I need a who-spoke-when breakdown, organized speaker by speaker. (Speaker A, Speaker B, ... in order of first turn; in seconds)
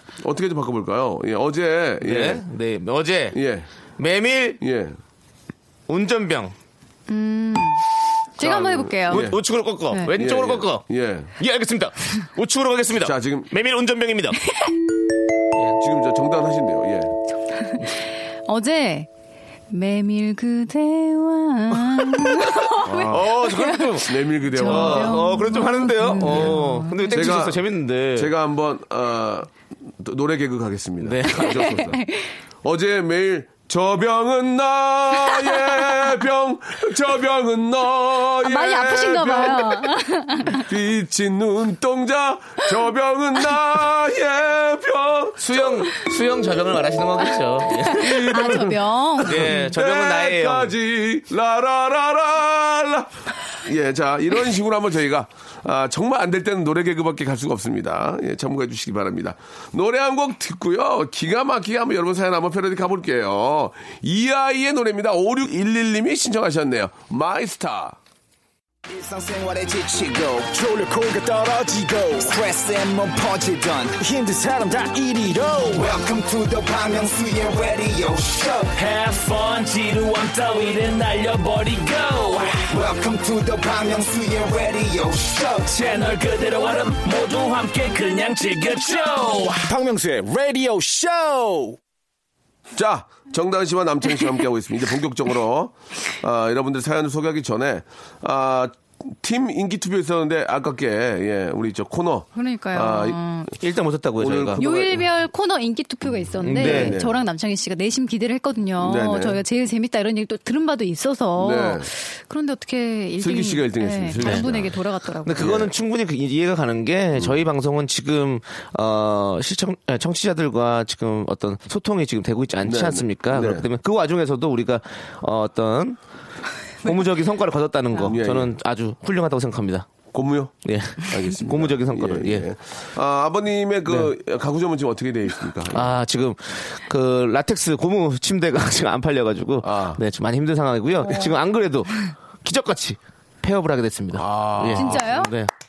Speaker A: 0.2-2.4, 3.3-3.7, 4.6-5.0, 8.4-9.4, 10.1-11.3, 13.0-13.5, 15.8-17.1, 22.8-23.4, 23.9-25.3, 26.1-32.0, 32.6-45.9, 47.9-68.0, 92.7-103.2, 104.2-105.0, 106.5-107.2, 108.8-109.4, 111.4-111.9, 113.2-114.8, 115.4-115.7, 117.1-117.4, 122.6-123.7, 128.0-128.5, 130.1-135.9, 139.6-140.0, 144.1-145.0
Speaker B: 2.0-3.4, 4.0-4.6, 5.9-6.5, 9.1-10.8, 11.4-14.4, 22.1-28.3, 31.0-31.6, 45.4-48.7, 49.2-50.7, 103.6-104.6, 106.4-107.0, 114.2-114.5, 115.2-126.0, 126.8-129.9, 130.6-132.5, 133.9-134.1, 135.7-145.5
Speaker C: 7.1-7.8, 8.4-9.3, 17.6-19.1, 19.7-27.4, 31.5-32.3, 35.3-35.6, 38.4-40.7, 47.7-49.6, 102.3-103.5, 104.6-115.4, 144.7-145.3
Speaker D: 68.9-78.7, 82.6-85.7, 89.6-91.8
Speaker E: 78.7-82.6, 85.7-89.6